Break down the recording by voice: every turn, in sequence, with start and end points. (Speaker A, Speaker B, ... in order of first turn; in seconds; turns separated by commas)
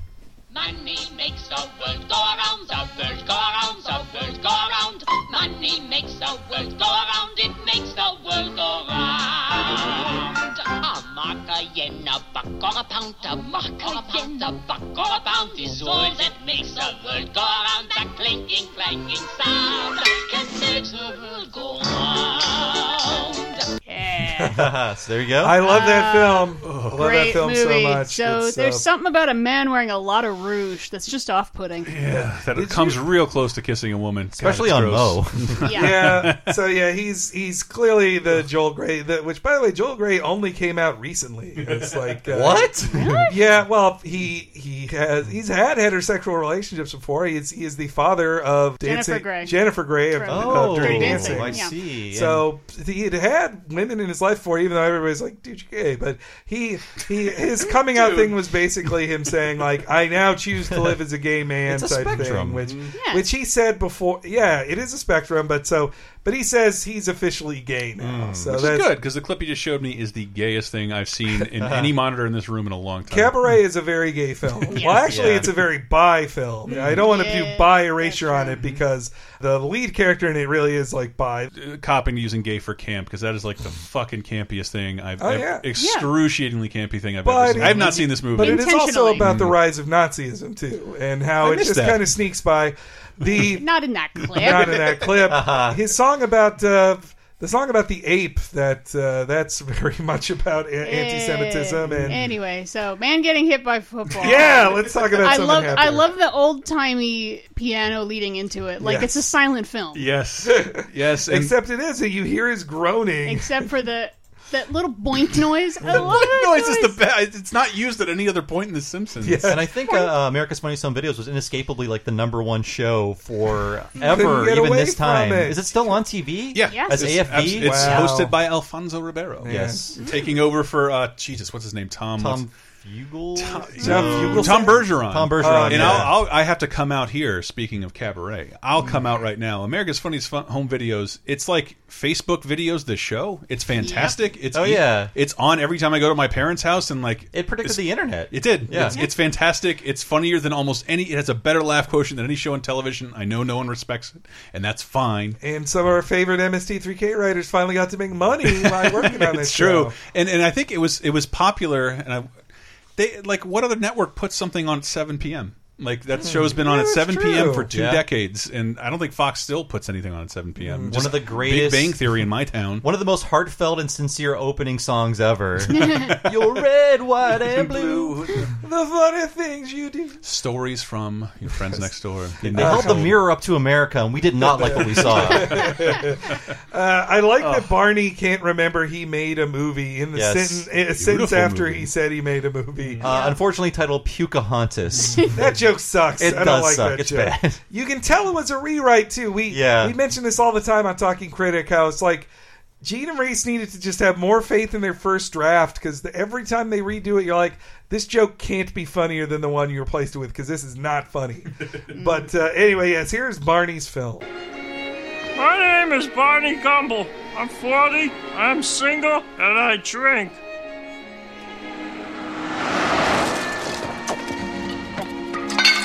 Speaker A: 0.5-23.6, Speaker B: 23.9-24.5, Speaker C: 24.4-24.6, Speaker D: 24.5-25.6, Speaker C: 25.4-28.8, Speaker B: 25.6-32.0, Speaker E: 26.6-27.1, Speaker E: 31.9-36.5, Speaker C: 32.1-33.0, Speaker D: 34.4-35.7, Speaker B: 35.6-35.9, Speaker C: 35.7-42.7, Speaker E: 41.6-41.9, Speaker D: 42.3-43.2, Speaker B: 42.9-43.3, Speaker C: 43.3-68.9, Speaker B: 48.8-49.6, Speaker B: 50.1-51.7, Speaker D: 50.3-52.5, Speaker E: 57.9-58.4, Speaker D: 61.7-62.8, Speaker E: 62.1-62.8, Speaker B: 62.9-63.2, Speaker D: 68.0-68.7, Speaker E: 68.5-73.4, Speaker D: 71.6-71.9, Speaker C: 73.1-81.5, Speaker B: 74.7-75.0, Speaker E: 74.7-75.6, Speaker E: 76.7-77.1, Speaker B: 77.0-78.6, Speaker E: 78.6-78.8, Speaker E: 81.5-89.6, Speaker C: 85.2-85.6, Speaker B: 85.8-86.1, Speaker C: 87.2-93.6, Speaker B: 87.8-89.2, Speaker E: 91.4-92.2, Speaker B: 93.3-94.8, Speaker C: 94.3-102.2, Speaker D: 95.2-95.8, Speaker B: 100.8-110.1, Speaker C: 104.2-106.1, Speaker C: 108.8-109.1, Speaker E: 109.9-111.5, Speaker C: 110.4-113.6, Speaker B: 113.2-117.0, Speaker E: 115.8-119.5, Speaker C: 119.2-119.6, Speaker D: 119.4-128.1, Speaker C: 124.0-125.9, Speaker E: 126.5-132.5, Speaker B: 126.7-127.0, Speaker C: 127.3-128.3, Speaker C: 129.4-129.8, Speaker D: 129.4-129.9, Speaker D: 132.2-136.2, Speaker E: 133.3-155.4, Speaker C: 133.8-136.2, Speaker B: 143.8-144.2, Speaker D: 144.5-145.1, Speaker D: 147.3-149.0, Speaker C: 155.4-159.9, Speaker E: 158.4-162.3, Speaker E: 163.0-172.8, Speaker C: 166.2-167.7, Speaker D: 167.7-168.0, Speaker C: 170.6-171.0, Speaker D: 170.9-172.0, Speaker D: 172.8-178.2, Speaker B: 175.7-176.1, Speaker E: 177.5-178.5, Speaker C: 178.6-180.2, Speaker E: 180.2-183.2, Speaker D: 182.4-185.8, Speaker C: 182.6-183.1, Speaker C: 184.5-193.0, Speaker E: 184.6-186.0, Speaker E: 187.4-187.7, Speaker D: 190.1-190.7, Speaker E: 190.9-191.9, Speaker D: 193.0-195.3, Speaker B: 193.0-193.4, Speaker C: 195.3-202.3, Speaker D: 196.2-197.6, Speaker D: 199.5-199.9, Speaker C: 202.8-214.2, Speaker B: 211.9-212.2, Speaker F: 215.3-220.4